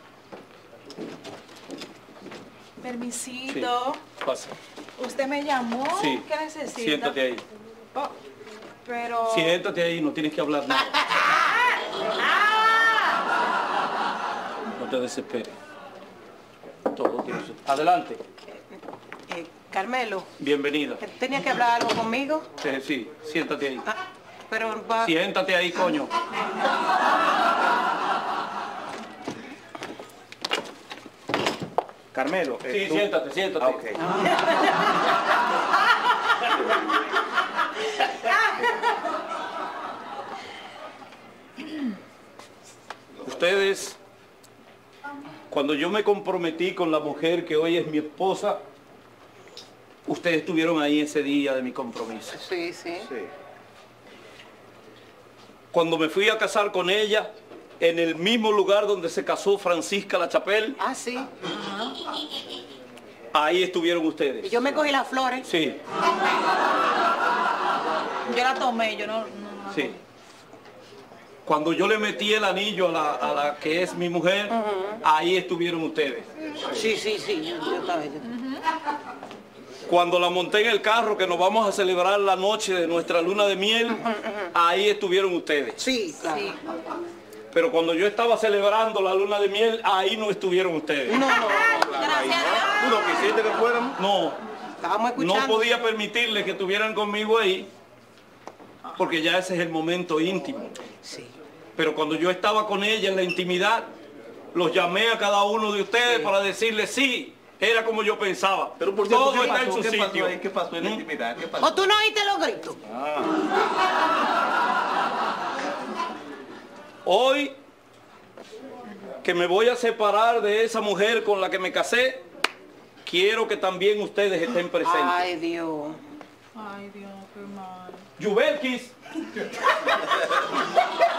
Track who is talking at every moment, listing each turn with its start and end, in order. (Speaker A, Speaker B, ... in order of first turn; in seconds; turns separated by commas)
Speaker A: 2.8-4.0, Speaker B: 3.5-4.5, Speaker A: 5.0-7.2, Speaker B: 5.9-7.4, Speaker A: 8.8-9.6, Speaker B: 9.2-11.2, Speaker A: 12.2-12.9, Speaker B: 14.7-15.5, Speaker B: 16.9-18.2, Speaker C: 19.3-20.3, Speaker B: 20.4-21.0, Speaker C: 21.0-22.4, Speaker B: 22.6-23.8, Speaker C: 24.5-25.1, Speaker B: 25.0-26.1, Speaker D: 32.1-32.9, Speaker B: 32.6-34.0, Speaker B: 43.2-44.0, Speaker B: 45.5-48.6, Speaker B: 50.0-52.4, Speaker C: 52.3-53.1, Speaker B: 55.7-60.8, Speaker C: 60.8-61.3, Speaker A: 61.5-61.9, Speaker B: 63.3-64.8, Speaker C: 64.4-65.5, Speaker B: 65.4-65.8, Speaker A: 68.3-70.0, Speaker B: 69.7-69.9, Speaker B: 71.4-76.2, Speaker C: 74.5-75.0, Speaker C: 76.6-78.3, Speaker B: 79.9-84.0, Speaker C: 84.0-84.5, Speaker B: 84.5-85.8, Speaker C: 85.8-86.6, Speaker B: 87.5-91.2, Speaker C: 91.0-92.0, Speaker D: 91.9-93.9, Speaker A: 92.0-93.0, Speaker B: 93.9-94.4, Speaker C: 94.8-95.7, Speaker B: 95.2-97.7, Speaker B: 98.9-100.7, Speaker C: 101.0-101.3, Speaker B: 101.8-103.9, Speaker B: 104.5-111.0, Speaker C: 106.0-106.3, Speaker D: 108.8-111.8, Speaker C: 111.6-112.8, Speaker B: 112.9-113.3, Speaker B: 117.0-117.5, Speaker B: 119.2-122.2, Speaker B: 123.0-125.2, Speaker C: 124.8-126.0, Speaker A: 126.6-128.0, Speaker B: 128.2-128.9